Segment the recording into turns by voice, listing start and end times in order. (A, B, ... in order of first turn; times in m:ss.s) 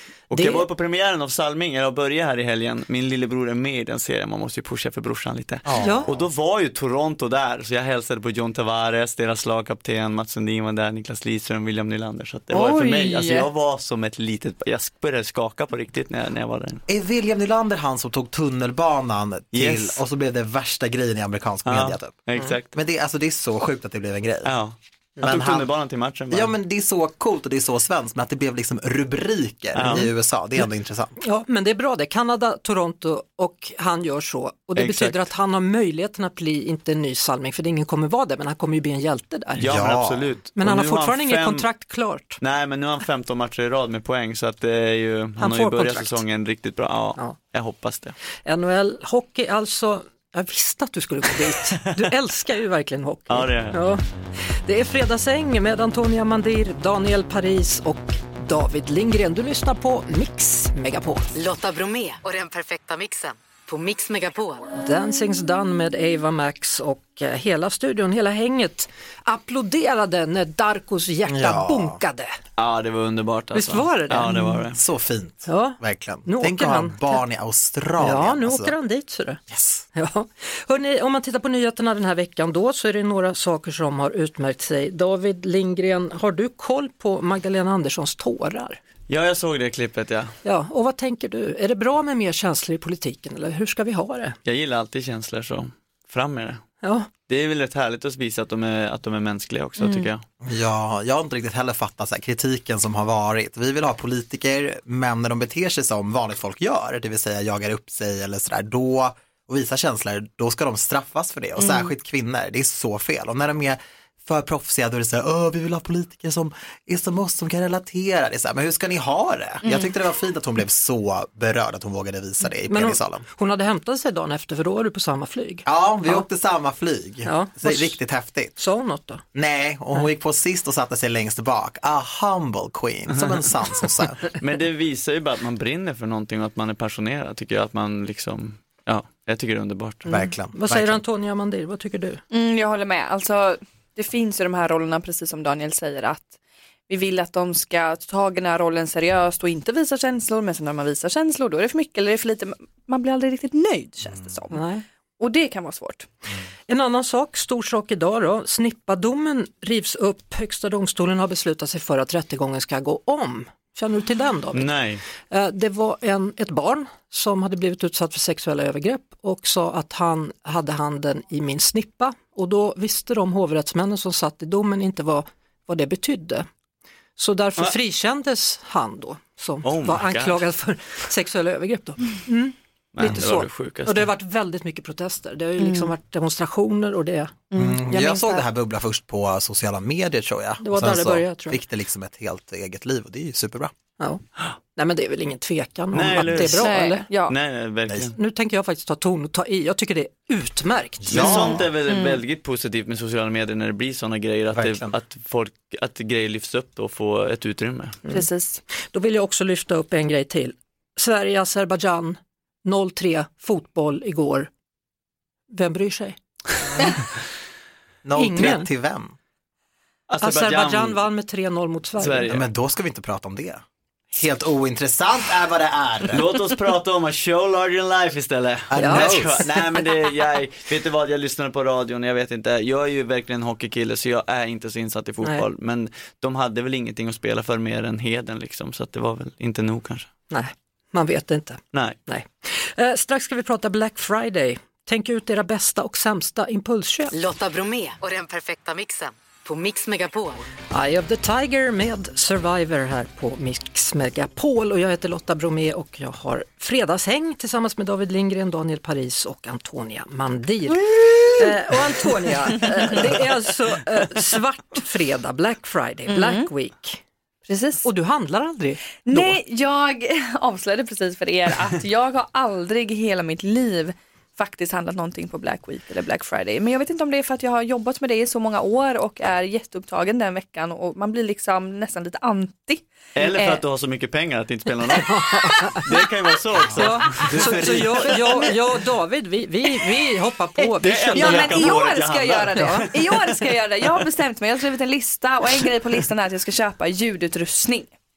0:00.3-0:16.8 A
0:00.3-0:00.7 B
0:05.6-0:06.2 C
0:05.8-0:06.1 B
0:12.5-0:13.5 D
0:16.9-0:24.5 C
0:19.5-0:20.0 A
0:21.7-0:22.7 A
0:24.4-0:26.5 A
0:25.2-0:25.7 C
0:26.3-0:31.2 C
0:29.8-0:30.1 A
0:31.2-0:39.6 B
0:34.8-0:35.3 A
0:39.6-0:41.7 A
0:39.6-0:40.3 C
0:40.6-0:42.4 B
0:42.4-0:48.2 A
0:45.4-0:46.2 B
0:48.4-0:54.0 B
0:53.3-0:53.8 A
0:54.6-1:01.3 B
1:01.4-1:04.7 E
1:04.8-1:12.3 B
1:11.3-1:12.0 C
1:12.6-1:14.8 A
1:13.5-1:14.6 B
1:14.7-1:18.7 C
1:15.5-1:17.2 B
1:18.0-1:19.4 B
1:19.5-1:19.9 C
1:20.0-1:28.8 B
1:29.1-1:30.4 A
1:30.4-1:34.4 B
1:34.4-1:36.6 A
1:36.8-1:37.1 B
1:37.3-1:40.2 A
1:39.8-1:40.1 D
1:40.4-2:03.2 C
1:51.6-1:51.9 D
1:59.6-1:59.9 D
2:02.7-2:06.2 B
2:05.6-2:08.5 C
2:07.2-2:08.0 B
2:08.6-2:09.2 B
2:09.4-2:14.2 C
2:14.4-2:20.1 A
2:20.1-2:21.0 C
2:20.5-2:22.2 B
2:22.3-2:26.4 D
2:26.9-2:34.6 D
2:34.5-2:34.8 B
2:35.2-2:36.1 D
2:36.7-2:44.7 B
2:44.5-2:45.0 A
2:45.3-2:56.5 B
2:57.2-3:07.5 B
2:59.6-3:00.4 A
3:03.0-3:04.1 A
3:05.6-3:05.9 D
3:07.5-3:08.4 D
3:07.5-3:13.7 C
3:10.6-3:11.6 B
3:14.8-3:17.1 B
3:15.9-3:16.8 A
3:16.5-3:17.4 D
3:17.3-3:18.2 A
3:18.2-3:21.4 B
3:21.0-3:21.7 C
3:21.1-3:28.0 A
3:21.2-3:22.2 D
3:24.5-3:25.0 C
3:28.1-3:28.6 D
3:28.9-3:34.5 B
3:35.5-3:36.2 B
3:38.0-3:39.2 C
3:38.2-3:38.7 B
3:40.1-3:41.0 A
3:40.2-3:42.4 B
3:42.0-3:42.4 A
3:42.3-3:46.3 C
3:46.1-4:00.1 A
3:48.7-3:49.7 C
3:48.8-3:49.1 B
4:00.3-4:07.2 B
4:07.1-4:10.4 E
4:10.7-4:27.0 B
4:26.1-4:26.5 D
4:27.5-4:27.9 D
4:27.8-4:29.4 B
4:29.0-4:43.6 D
4:43.2-4:45.1 A
4:45.0-4:45.8 B
4:45.8-4:48.5 A
4:46.8-4:51.8 B
4:50.8-4:54.1 A
4:51.1-4:57.9 D
4:52.6-4:52.8 B